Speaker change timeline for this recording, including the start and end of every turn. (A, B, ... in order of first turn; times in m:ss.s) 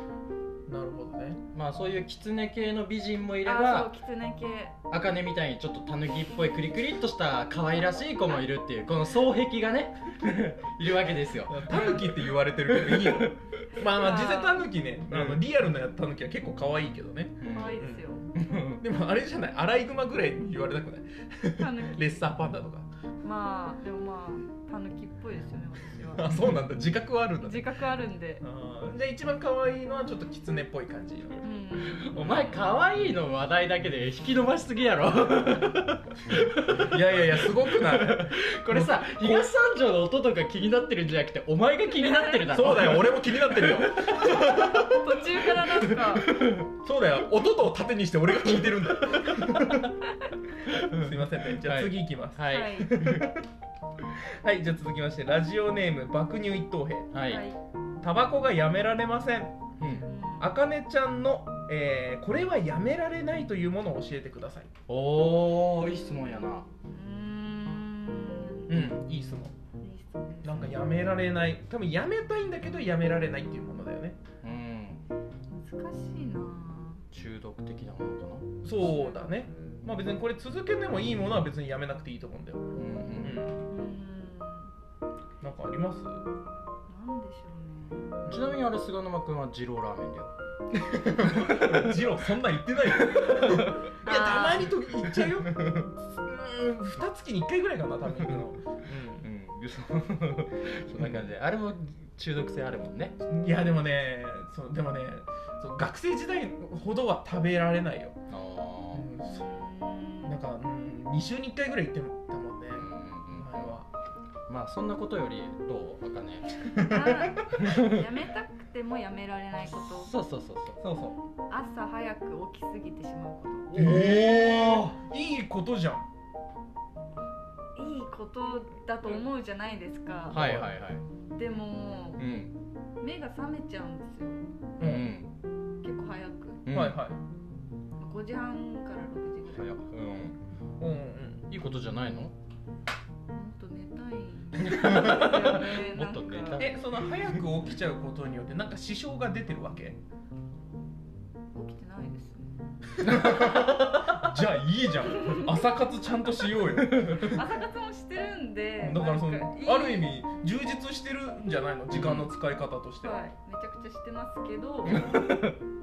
0:00.7-0:01.4 A
0:01.5-0:04.0 B
0:03.4-0:04.8 C
0:04.9-0:11.9 B
0:11.5-0:18.1 A
0:11.7-0:12.0 C
0:12.7-0:13.3 B
0:13.8-0:14.6 C
0:15.1-0:15.4 B
0:17.4-0:17.8 B
0:17.5-0:18.2 C
0:18.3-0:18.8 B
0:18.8-0:22.9 A
0:21.6-0:22.3 C
0:23.2-0:26.2 C
0:26.1-0:27.8 A
0:27.4-0:28.4 C
0:28.4-0:31.5 A
0:31.4-0:32.2 C
0:31.8-0:44.3 B
0:32.1-0:32.7 A
0:36.7-0:39.5 A
0:41.8-0:42.5 C
0:42.5-0:49.9 A
0:44.4-0:46.4 C
0:50.9-0:53.4 A
0:51.6-0:52.9 B
0:52.4-0:52.9 C
0:54.4-0:57.1 A
0:57.1-0:57.4 B
0:57.2-0:57.6 C
0:58.0-0:59.7 A
0:59.8-1:00.0 B
0:59.9-1:00.5 C
1:00.4-1:04.7 A
1:04.9-1:06.7 B
1:06.9-1:08.7 C
1:08.7-1:09.5 A
1:08.7-1:09.0 B
1:09.8-1:10.7 C
1:10.4-1:14.2 A
1:14.4-1:15.0 B
1:15.5-1:17.0 C
1:17.1-1:18.5 B
1:18.6-1:23.6 A
1:18.8-1:19.8 C
1:22.8-1:23.4 B
1:23.7-1:24.7 C
1:25.4-1:26.2 A
1:26.9-1:28.2 C
1:28.2-1:28.6 A
1:28.3-1:30.3 B
1:30.8-1:39.3 A
1:31.3-1:31.9 B
1:33.2-1:33.8 B
1:34.0-1:34.7 C
1:39.2-1:43.2 B
1:41.0-1:41.2 A
1:43.2-1:48.2 A
1:48.3-1:49.1 B
1:48.9-1:49.5 A
1:49.2-1:50.4 C
1:50.2-1:53.9 A
1:52.8-1:53.7 B
1:54.5-1:56.5 B
1:56.6-1:57.7 A
1:56.7-2:00.1 C
1:57.6-1:58.0 B
1:59.6-2:00.8 B
2:00.8-2:01.2 A
2:01.5-2:03.7 C
2:03.7-2:04.9 B
2:03.7-2:06.0 A
2:07.7-2:10.4 C
2:10.3-2:11.0 B
2:10.3-2:10.7 A
2:11.3-2:12.2 C
2:12.2-2:12.6 B
2:13.0-2:14.4 C
2:14.8-2:15.1 A
2:14.8-2:15.3 B
2:15.8-2:16.7 C
2:16.6-2:17.0 B
2:16.7-2:17.2 A
2:18.0-2:19.8 C
2:19.5-2:20.4 B
2:20.8-2:21.5 A
2:21.5-2:22.3 B
2:23.3-2:26.7 C
2:24.6-2:26.8 B
2:25.0-2:25.2 A
2:26.6-2:30.0 A
2:31.5-2:32.6 C
2:33.0-2:37.4 A
2:33.0-2:34.2 B
2:35.1-2:35.5 C
2:36.9-2:37.2 B
2:37.2-2:40.1 C
2:38.8-2:43.2 A
2:41.9-2:42.3 B
2:43.0-2:45.1 C
2:44.8-2:45.6 B